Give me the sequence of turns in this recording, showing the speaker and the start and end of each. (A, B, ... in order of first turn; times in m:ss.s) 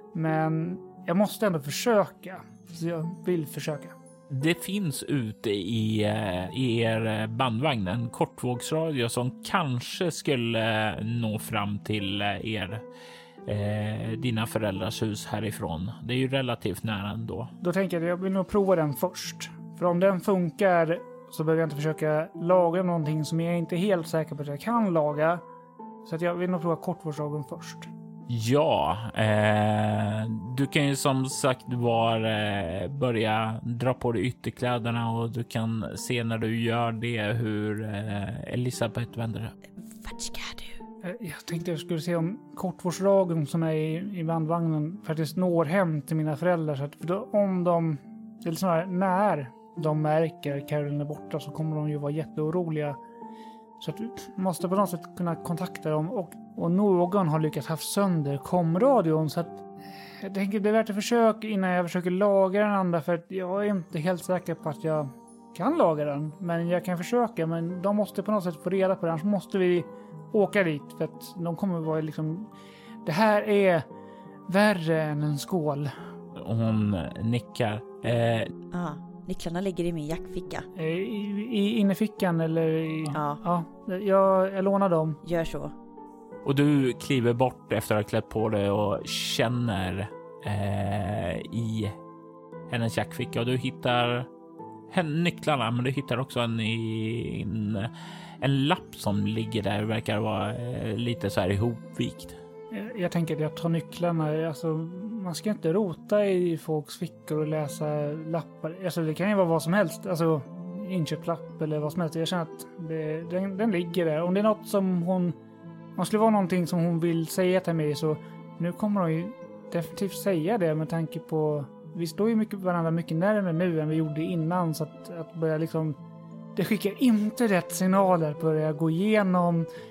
0:00.1-0:03.9 A
0:04.3-0:12.8 B
0:13.4-0:17.5 B
0:17.6-0:25.4 A
0:26.0-0:27.9 A
0:28.3-0:39.5 B
0:39.9-0:40.7 C
0:41.0-0:53.0 A
0:53.8-1:12.5 A
1:13.0-1:13.8 A
1:14.5-1:15.9 A
1:16.3-1:18.5 B
1:18.7-1:20.6 C
1:20.7-1:25.2 A
1:23.1-1:23.4 C
1:25.2-1:25.7 C
1:26.4-1:32.0 B
1:32.7-1:34.3 B
1:34.9-1:42.4 B
1:42.7-1:55.4 A
1:56.0-2:06.0 A
2:06.6-2:09.7 A